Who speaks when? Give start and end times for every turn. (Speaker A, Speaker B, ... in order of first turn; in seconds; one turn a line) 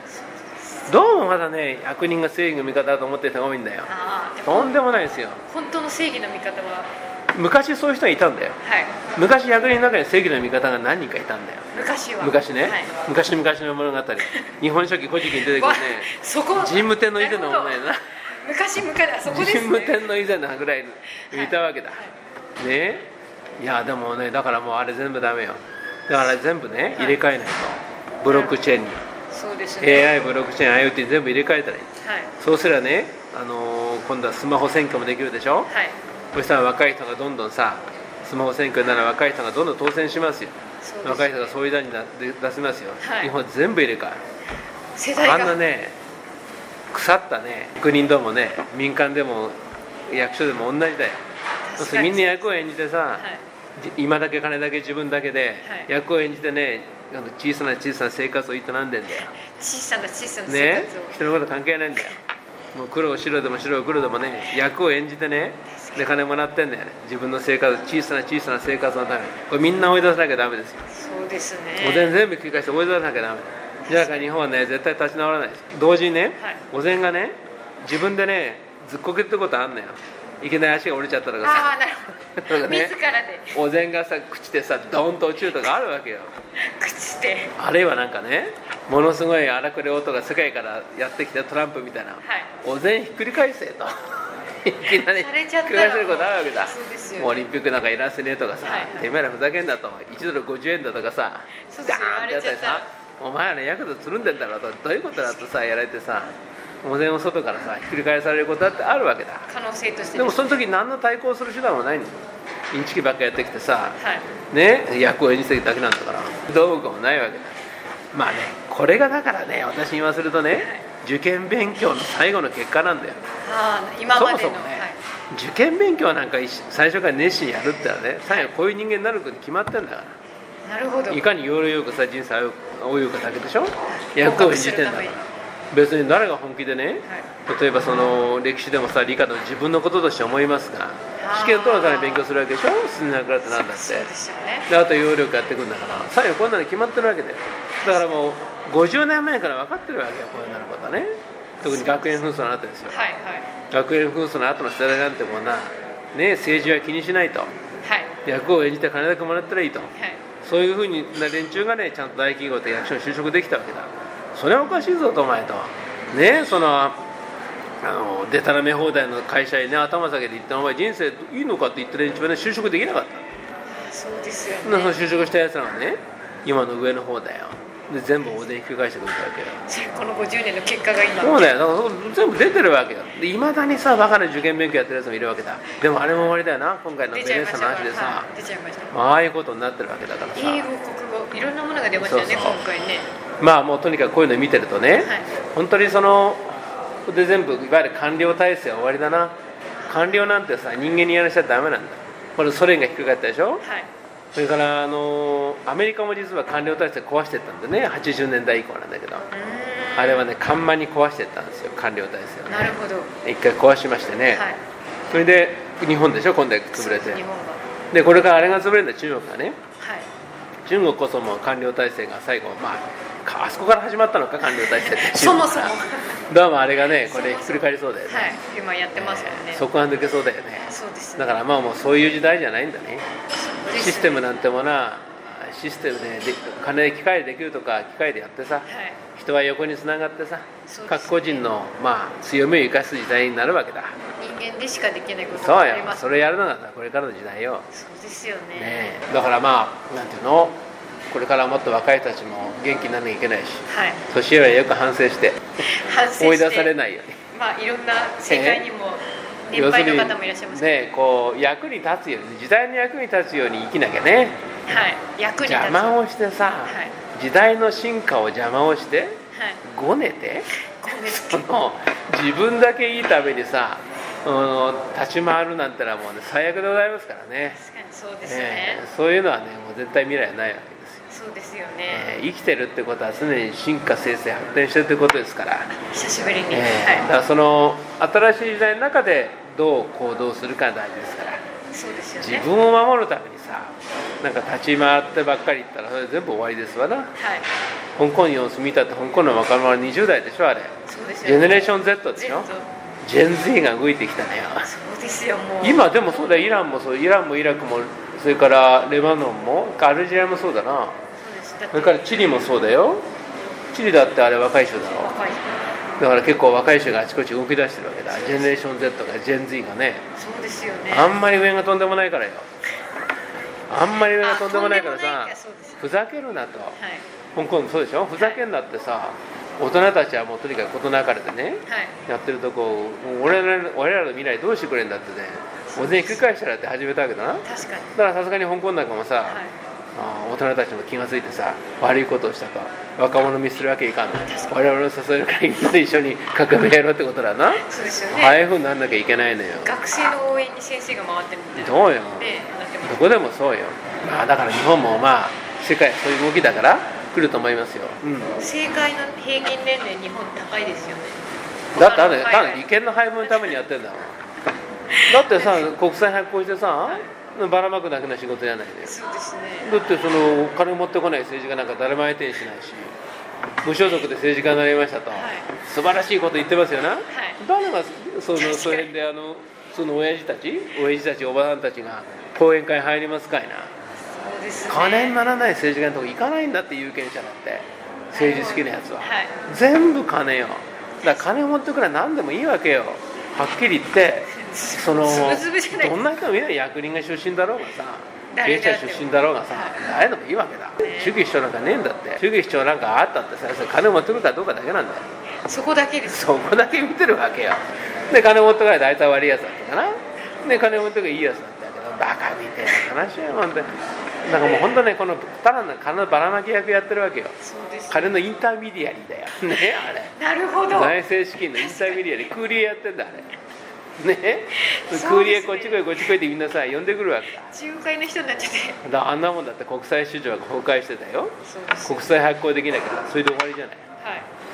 Speaker A: 0.1-0.9
Speaker B: 0.9-3.9
Speaker A: 3.9-4.8
Speaker B: 4.5-5.4
Speaker A: 5.5-6.9
Speaker B: 7.3-11.6
Speaker A: 8.6-8.9
Speaker A: 11.7-12.9
Speaker B: 12.2-18.0
Speaker A: 15.4-20.0
Speaker B: 19.3-22.0
Speaker A: 21.3-22.1
Speaker B: 22.6-29.0
Speaker A: 26.1-26.4
Speaker A: 26.9-27.2
Speaker A: 28.3-28.6
Speaker A: 29.3-30.2
Speaker B: 29.8-35.7
Speaker A: 32.0-32.3
Speaker A: 35.7-36.0
Speaker B: 36.3-44.2
Speaker A: 40.8-41.5
Speaker A: 43.0-43.3
Speaker A: 45.0-45.6
Speaker B: 45.2-46.0
Speaker B: 46.9-49.5
Speaker B: 50.1-51.2
Speaker A: 51.7-52.5
Speaker B: 51.8-53.2
Speaker B: 53.8-59.3
Speaker A: 55.6-55.9
Speaker A: 59.4-61.2
Speaker B: 60.5-62.2
Speaker B: 62.7-70.8
Speaker A: 65.8-66.2
Speaker A: 70.9-72.1
Speaker B: 71.8-81.8
Speaker A: 73.9-74.3
Speaker A: 81.4-83.6
Speaker B: 82.4-83.0
Speaker B: 83.5-86.3
Speaker A: 86.7-87.5
Speaker B: 87.6-94.1
Speaker A: 92.2-92.5
Speaker B: 94.6-106.3
Speaker A: 94.9-97.4
Speaker A: 98.6-99.1
Speaker A: 101.7-102.8
Speaker A: 105.2-105.4
Speaker B: 106.8-109.5
Speaker A: 109.5-110.7
Speaker B: 110.2-112.2
Speaker B: 112.7-114.0
Speaker A: 114.0-114.3
Speaker B: 114.5-117.6
Speaker B: 118.1-123.2
Speaker A: 120.5-120.8
Speaker A: 123.4-125.0
Speaker B: 124.1-130.2
Speaker A: 130.7-131.2
Speaker B: 131.1-144.1
Speaker A: 134.0-135.2
Speaker A: 141.2-142.3
Speaker A: 143.4-144.7
Speaker B: 144.7-151.1
Speaker A: 147.8-148.2
Speaker B: 151.6-153.1
Speaker A: 151.6-152.2
Speaker A: 152.9-153.5
Speaker B: 153.7-157.5
Speaker A: 157.8-158.1
Speaker B: 158.2-159.9
Speaker B: 160.4-167.0
Speaker A: 164.7-164.9
Speaker B: 167.8-173.2
Speaker A: 173.8-175.3
Speaker B: 174.6-179.6
Speaker A: 179.7-181.5
Speaker B: 181.2-188.3
Speaker A: 187.1-188.9
Speaker B: 188.9-190.7
Speaker A: 190.4-193.1
Speaker B: 192.0-192.6
Speaker B: 193.4-199.4
Speaker A: 195.0-195.3
Speaker A: 199.8-200.3
Speaker B: 199.9-203.6
Speaker A: 203.6-203.9
Speaker B: 204.3-209.3
Speaker A: 209.3-210.3
Speaker B: 210.0-214.4
Speaker A: 212.5-213.1
Speaker A: 214.3-214.6
Speaker B: 215.1-217.2
Speaker A: 216.7-217.6
Speaker B: 217.9-219.6
Speaker A: 219.8-220.1
Speaker B: 220.7-225.8
Speaker A: 224.4-226.2
Speaker B: 226.3-228.4
Speaker A: 227.0-229.6
Speaker B: 228.9-233.1
Speaker A: 230.7-231.4
Speaker A: 233.4-234.2
Speaker B: 233.7-244.0
Speaker A: 238.7-239.0
Speaker A: 240.7-241.5
Speaker A: 244.2-246.1
Speaker B: 245.3-247.7
Speaker A: 247.7-249.0
Speaker B: 248.6-255.7
Speaker A: 253.7-254.0
Speaker A: 255.6-256.7
Speaker B: 256.2-257.2
Speaker A: 257.3-260.9
Speaker B: 258.3-258.7
Speaker B: 259.5-264.4
Speaker A: 264.7-266.0
Speaker B: 265.4-277.6
Speaker A: 266.7-266.9
Speaker A: 269.3-269.6
Speaker A: 270.8-271.5
Speaker A: 277.5-278.8
Speaker B: 278.2-281.0
Speaker A: 281.1-282.1
Speaker B: 281.9-285.7
Speaker A: 285.9-287.1
Speaker B: 286.5-291.4
Speaker A: 291.7-292.5
Speaker B: 292.2-297.1
Speaker A: 297.2-297.4
Speaker B: 298.0-302.5
Speaker A: 300.9-302.7
Speaker B: 303.0-304.7
Speaker A: 304.6-305.9
Speaker B: 305.6-311.0
Speaker A: 311.2-312.2
Speaker B: 311.7-313.0
Speaker B: 313.7-315.1
Speaker A: 314.9-315.4
Speaker B: 316.0-320.0
Speaker A: 318.1-318.7
Speaker A: 320.2-321.2
Speaker B: 320.9-322.5
Speaker B: 323.7-326.8
Speaker A: 324.2-325.8
Speaker A: 326.8-327.0
Speaker B: 327.4-339.4
Speaker A: 331.7-332.0
Speaker A: 335.7-336.2
Speaker A: 337.4-337.9
Speaker A: 339.2-339.5
Speaker B: 339.9-349.7
Speaker A: 344.3-344.6
Speaker A: 347.6-348.4
Speaker A: 349.6-353.1
Speaker B: 351.6-358.4
Speaker A: 358.4-361.2
Speaker B: 361.7-364.2
Speaker A: 361.8-362.7
Speaker A: 363.2-363.6
Speaker A: 364.9-365.7
Speaker B: 365.1-369.0
Speaker A: 368.8-369.7
Speaker B: 369.6-372.9
Speaker B: 373.6-383.7
Speaker A: 375.1-375.5
Speaker A: 377.1-377.4
Speaker A: 378.3-378.9
Speaker A: 384.1-385.3
Speaker B: 384.7-405.1
Speaker A: 388.1-389.3
Speaker A: 394.3-396.2
Speaker A: 398.3-399.8
Speaker A: 400.8-401.2
Speaker A: 405.5-406.3
Speaker B: 406.1-413.7
Speaker A: 410.4-410.7
Speaker B: 414.2-417.4
Speaker A: 417.4-418.2
Speaker B: 417.9-420.1
Speaker A: 420.2-421.0
Speaker B: 420.7-423.3
Speaker A: 421.6-422.0
Speaker B: 424.0-427.5
Speaker A: 424.6-426.1
Speaker A: 427.5-428.8
Speaker B: 428.8-433.9
Speaker A: 431.5-432.1
Speaker A: 434.0-434.3